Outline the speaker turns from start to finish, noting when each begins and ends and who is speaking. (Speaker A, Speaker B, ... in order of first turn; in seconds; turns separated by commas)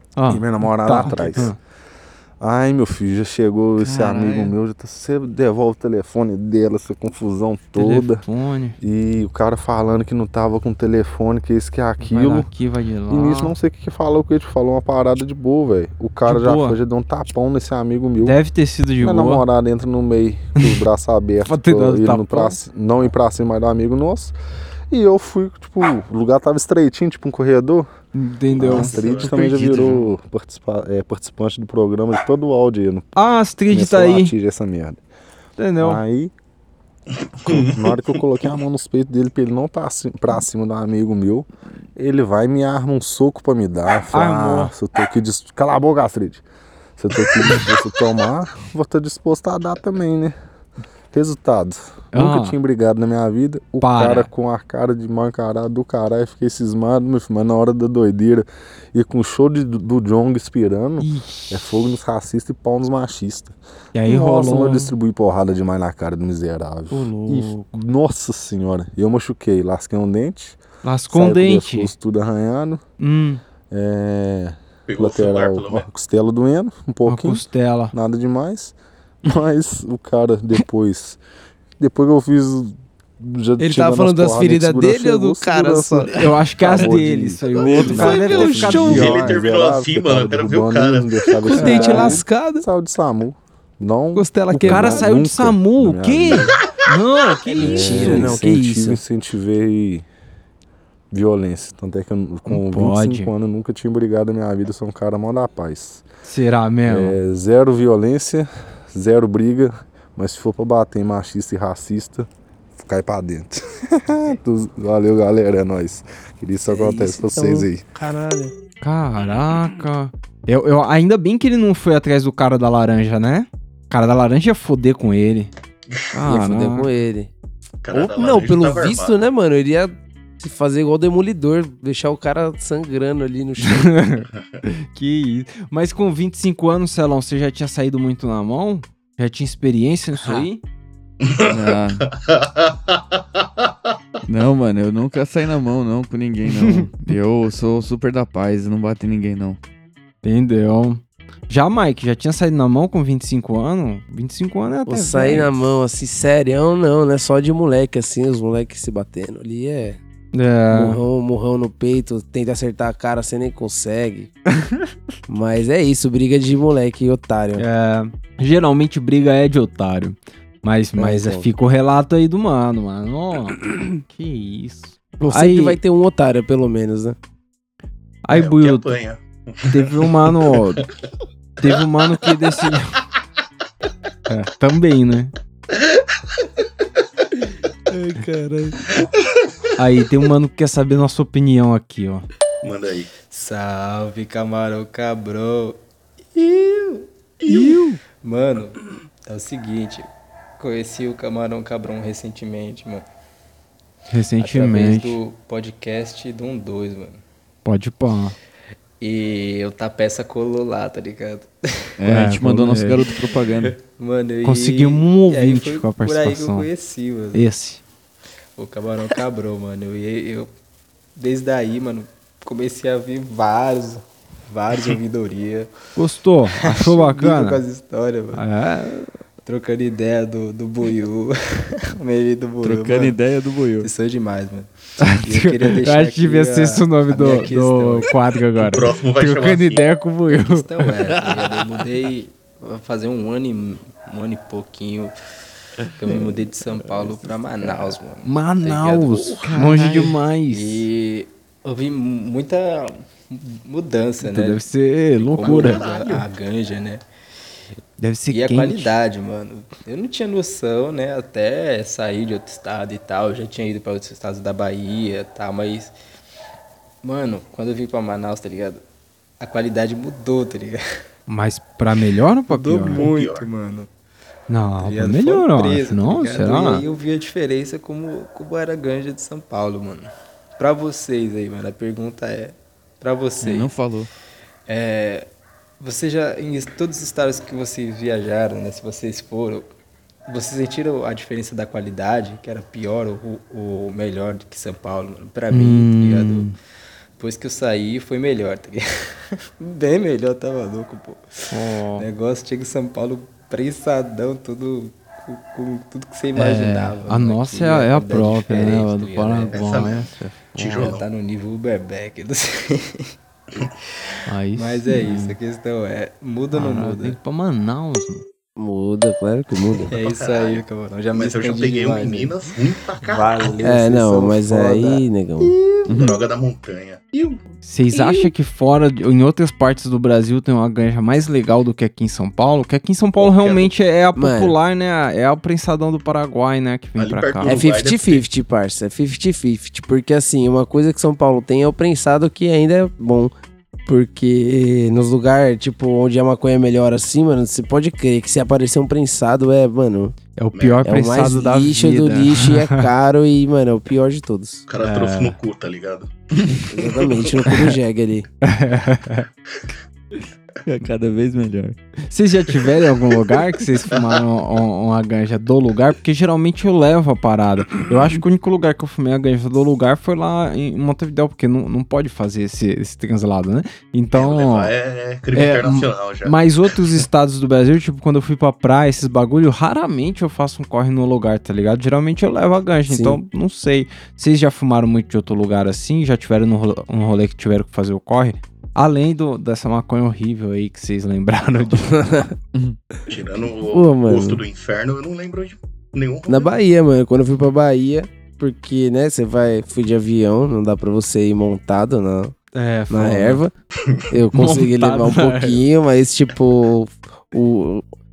Speaker A: 0.1-1.6, Speaker B: 0.3-1.5, Speaker C: 1.1-1.5, Speaker B: 2.4-8.2, Speaker D: 3.8-4.5, Speaker A: 7.8-8.8, Speaker B: 8.8-12.5, Speaker A: 12.0-13.5, Speaker B: 13.1-18.4, Speaker A: 16.3-16.8, Speaker A: 18.2-19.4, Speaker B: 19.0-24.3, Speaker A: 21.4-22.6, Speaker B: 24.9-27.9, Speaker A: 28.1-30.1, Speaker C: 28.6-29.6, Speaker B: 28.6-33.1, Speaker A: 33.1-34.3, Speaker B: 33.7-35.0, Speaker A: 35.6-36.0, Speaker B: 35.8-36.3, Speaker C: 37.4-38.1, Speaker B: 37.4-46.4, Speaker A: 44.1-44.7, Speaker B: 47.0-50.3, Speaker B: 51.1-70.6, Speaker A: 52.1-52.5, Speaker A: 53.8-54.3, Speaker A: 61.0-61.6, Speaker A: 63.9-64.9, Speaker A: 66.9-67.8, Speaker A: 70.8-71.9, Speaker B: 71.1-72.8, Speaker A: 73.0-73.4, Speaker B: 73.7-81.2, Speaker C: 74.9-75.9, Speaker A: 77.0-77.9, Speaker B: 81.8-96.5, Speaker E: 83.6-86.2, Speaker A: 86.1-89.3, Speaker E: 87.8-88.9, Speaker C: 88.1-91.4, Speaker A: 91.5-92.3, Speaker F: 91.6-92.6, Speaker F: 94.2-95.0, Speaker A: 94.5-98.4, Speaker E: 97.5-99.0, Speaker B: 97.6-100.1, Speaker B: 101.1-106.0, Speaker A: 102.5-103.3, Speaker A: 106.2-107.2, Speaker B: 106.8-117.9, Speaker E: 116.7-118.5, Speaker A: 118.8-125.5, Speaker A: 126.1-126.9, Speaker E: 126.2-127.3, Speaker C: 127.8-129.2, Speaker E: 127.9-133.9, Speaker A: 133.6-140.6, Speaker C: 141.2-143.7, Speaker D: 141.5-142.1, Speaker D: 144.3-149.6, Speaker A: 150.2-155.6, Speaker E: 154.9-160.0, Speaker A: 160.3-161.0, Speaker E: 160.7-164.3, Speaker E: 165.3-167.6, Speaker A: 167.6-175.8, Speaker E: 171.0-171.5, Speaker E: 175.2-177.2, Speaker A: 178.2-178.9, Speaker C: 178.3-180.0, Speaker A: 179.7-180.8, Speaker A: 181.6-182.9, Speaker A: 184.3-185.3, Speaker F: 187.9-188.8, Speaker A: 189.8-192.2, Speaker C: 192.6-193.1, Speaker F: 193.3-195.8, Speaker F: 196.3-197.0, Speaker C: 197.4-197.7, Speaker A: 197.5-198.0, Speaker F: 198.2-200.1, Speaker F: 200.6-203.0, Speaker A: 204.1-205.2, Speaker F: 204.4-207.2, Speaker A: 207.6-208.3, Speaker F: 209.0-211.5, Speaker D: 212.0-213.7, Speaker A: 212.1-213.1, Speaker F: 213.8-217.4, Speaker A: 214.4-216.7, Speaker A: 217.3-217.8, Speaker F: 218.6-220.5, Speaker F: 221.2-225.7, Speaker A: 225.9-227.6, Speaker F: 226.6-228.4, Speaker A: 228.3-229.2, Speaker F: 229.4-231.3, Speaker F: 231.9-233.2, Speaker D: 232.6-233.9, Speaker F: 233.8-238.1, Speaker A: 235.0-240.7, Speaker C: 238.6-239.9, Speaker F: 240.3-245.1, Speaker F: 245.9-249.0, Speaker D: 246.1-247.8, Speaker A: 248.2-250.9, Speaker C: 249.0-249.6, Speaker D: 249.4-250.2, Speaker F: 250.5-254.6, Speaker A: 254.2-255.9, Speaker F: 255.2-257.0, Speaker C: 255.4-256.3, Speaker A: 258.0-259.0, Speaker F: 258.3-265.9, Speaker F: 267.0-268.8, Speaker F: 269.4-270.8, Speaker A: 271.3-273.1, Speaker F: 272.5-273.9, Speaker C: 272.8-273.5, Speaker A: 274.5-276.8, Speaker F: 274.8-283.7, Speaker D: 283.4-284.1, Speaker F: 284.7-285.3, Speaker F: 285.8-289.7, Speaker F: 290.3-296.5, Speaker A: 295.5-296.5, Speaker F: 297.2-298.8, Speaker F: 299.6-301.2, Speaker A: 301.5-302.1, Speaker F: 302.0-309.8, Speaker A: 306.4-310.9, Speaker C: 309.5-311.1, Speaker F: 310.6-313.0, Speaker A: 314.3-315.4, Speaker F: 314.6-317.2, Speaker A: 316.5-318.2, Speaker E: 318.6-319.9, Speaker C: 319.9-323.6, Speaker F: 319.9-325.0, Speaker E: 323.6-325.6, Speaker D: 325.9-326.2, Speaker C: 325.9-327.4, Speaker A: 327.6-337.6, Speaker C: 333.2-333.7, Speaker E: 334.1-334.5, Speaker C: 337.0-338.2, Speaker E: 337.4-343.3, Speaker E: 343.9-350.1, Speaker A: 350.4-352.8, Speaker C: 350.5-350.9, Speaker E: 350.8-354.6, Speaker C: 354.7-357.4, Speaker A: 354.8-355.4, Speaker E: 356.7-358.3, Speaker A: 358.4-359.2, Speaker D: 360.6-361.8, Speaker A: 362.1-374.7, Speaker C: 374.1-376.4, Speaker A: 375.3-392.2, Speaker E: 382.9-383.2, Speaker C: 393.1-396.5, Speaker E: 393.7-394.4, Speaker E: 396.3-402.3, Speaker A: 402.5-403.4, Speaker E: 402.9-403.5, Speaker E: 404.1-407.8, Speaker A: 404.3-405.6